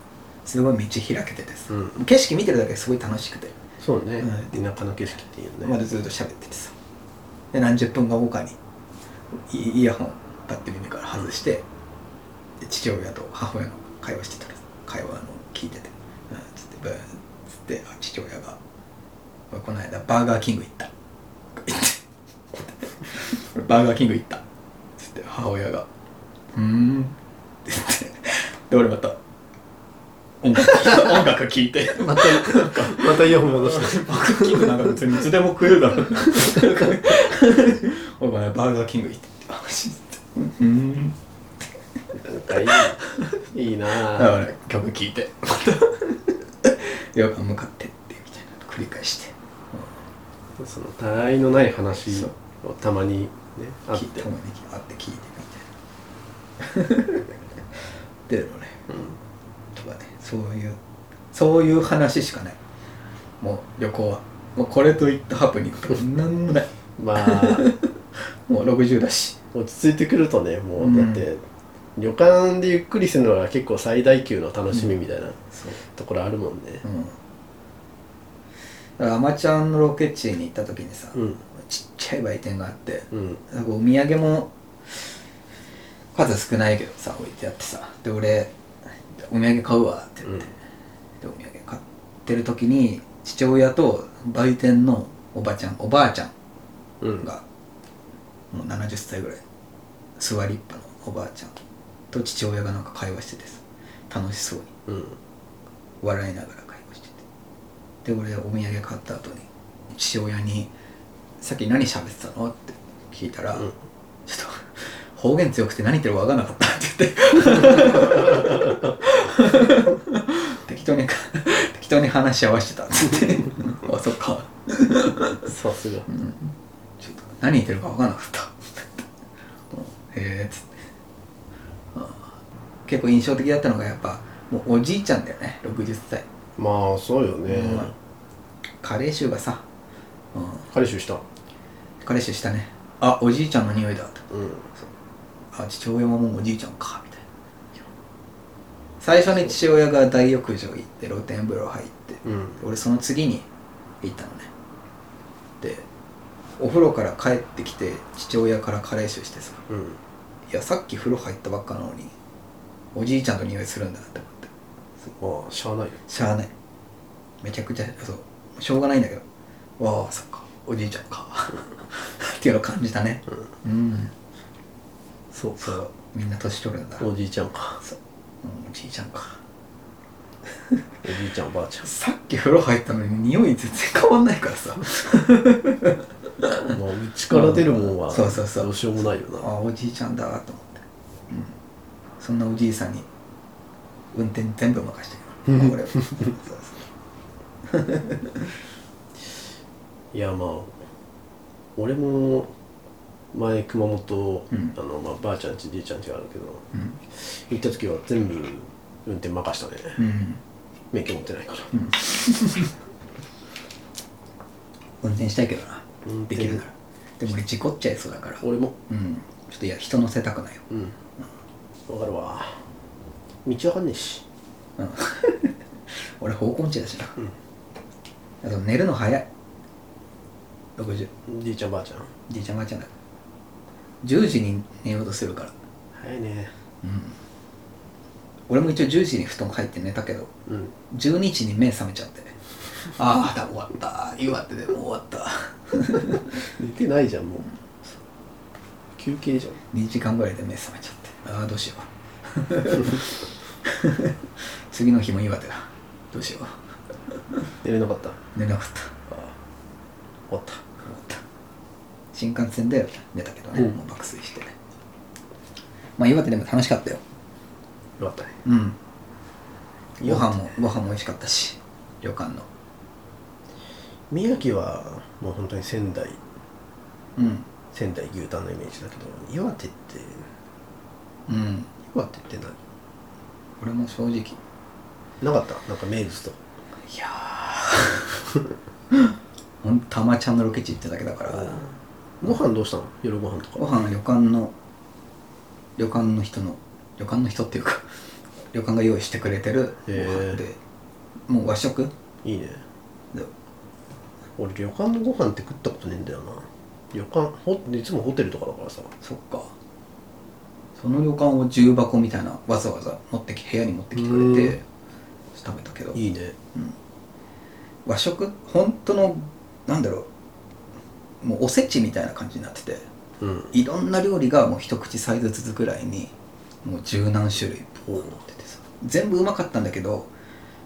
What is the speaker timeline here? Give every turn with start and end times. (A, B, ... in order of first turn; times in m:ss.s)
0:00.4-0:03.6 A
0:03.8-0:05.8 B
0:04.2-0:04.6 A
0:05.6-0:06.7 A
0:07.5-0:08.6 A
0:09.3-0:11.6 A
0:12.6-0:18.6 A
0:19.5-0:20.9 A
0:21.6-0:22.0 A
0:22.6-0:24.4 A
0:25.0-0:25.9 A
0:26.5-0:29.2 A
0:30.4-0:41.2 A
0:32.0-0:34.7 B
0:42.2-0:43.0 B
0:43.5-0:44.4 B
0:44.0-0:49.9 A
0:50.6-0:54.3 B
0:52.1-0:52.3 A
0:53.9-0:55.7 A
0:56.6-0:57.3 A
0:58.3-0:59.1 A
0:58.9-0:59.2 B
0:59.8-1:00.8 A
1:01.3-1:02.6 A
1:03.4-1:07.9 A
1:07.0-1:07.7 B
1:08.5-1:09.4 A
1:09.5-1:11.4 B
1:10.8-1:11.3 A
1:12.0-1:16.8 B
1:15.5-1:15.8 A
1:16.8-1:17.2 A
1:19.0-1:25.0 A
1:21.2-1:21.4 B
1:23.1-1:23.4 B
1:26.1-1:28.5 A
1:29.2-1:30.6 A
1:31.2-1:36.3 A
1:37.0-1:37.3 B
1:38.5-1:39.4 A
1:40.2-1:44.7 A
1:44.9-1:45.2 B
1:46.0-1:47.2 A
1:48.0-1:50.7 A
1:51.4-1:53.7 A
1:54.3-2:05.5 A
2:05.5-2:06.1 B
2:06.1-2:09.0 A
2:09.7-2:10.7 A
2:11.9-2:12.3 A
2:12.9-2:16.3 A
2:16.6-2:18.0 B
2:17.5-2:17.9 A
2:18.8-2:19.6 A
2:20.3-2:20.7 A
2:20.7-2:21.2 B
2:22.0-2:24.9 A
2:24.3-2:24.7 B
2:25.5-2:27.2 A
2:29.0-2:33.5 A
2:32.3-2:32.6 B
2:34.0-2:34.5 A
2:35.6-2:35.9 A
2:36.6-2:39.6 A
2:39.7-2:40.0 B
2:40.5-2:42.1 A
2:42.9-2:44.5 A
2:45.0-2:46.0 B
2:46.1-2:46.5 A
2:47.4-2:49.2 A
2:49.8-2:54.1 A
2:55.3-2:55.9 B
2:55.6-2:57.1 A
2:57.0-2:57.8 B
2:57.8-2:59.4 A
3:01.0-3:01.9 B
3:01.8-3:06.0 A
3:06.6-3:09.5 B
3:07.3-3:08.7 A
3:09.3-3:11.5 A
3:12.2-3:13.1 A
3:14.1-3:16.8 A
3:17.8-3:18.4 A
3:20.1-3:20.8 B
3:21.8-3:22.5 B
3:23.3-3:30.0 B
3:26.7-3:27.0 A
3:30.0-3:30.4 A
3:30.9-3:31.7 B
3:31.7-3:32.7 A
3:35.0-3:40.7 A
3:36.0-3:36.6 B
3:38.4-3:38.8 B
3:41.9-3:42.6 B
3:43.4-3:44.2 B
3:44.8-3:45.5 A
3:46.2-3:47.2 A
3:48.4-3:49.3 A
3:50.8-3:51.1 A
3:51.3-3:52.1 B
3:52.3-3:52.9 A
3:54.0-3:55.5 A
3:55.9-3:56.5 B
3:56.8-3:57.2 A
3:58.5-4:00.3 A
4:00.5-4:00.7 B
4:00.9-4:02.4 A
4:03.0-4:06.2 A
4:06.6-4:07.5 B
4:09.0-4:09.6 B
4:09.7-4:14.1 A
4:14.7-4:16.6 A
4:17.6-4:18.2 B
4:18.4-4:18.9 A
4:20.3-4:20.7 B
4:20.8-4:21.2 A
4:22.1-4:24.5 A
4:26.0-4:27.0 A
4:28.0-4:28.4 B
4:28.4-4:28.8 A
4:30.0-4:32.5 A
4:30.0-4:30.5 B
4:34.1-4:36.2 B
4:37.2-4:37.5 A
4:37.7-4:40.3 B
4:41.3-4:41.7 A
4:41.8-4:42.6 B
4:43.6-4:44.4 A
4:45.2-4:46.4 B
4:46.9-4:48.1 A
4:49.6-4:51.7 A
4:51.3-4:53.7 B
4:53.6-4:54.5 A
4:55.8-4:57.9 A
4:58.5-5:00.6 A
4:59.9-5:00.4 B
5:01.3-5:01.9 A
5:02.2-5:02.6 B
5:04.4-5:08.9 B
5:09.0-5:09.5 A
5:10.8-5:14.6 A
5:14.0-5:14.6 B
5:15.3-5:16.0 A
5:15.9-5:16.4 B
5:17.8-5:20.1 A
5:21.2-5:22.9 A
5:23.2-5:23.5 B
5:23.5-5:30.1 A
5:27.9-5:28.1 B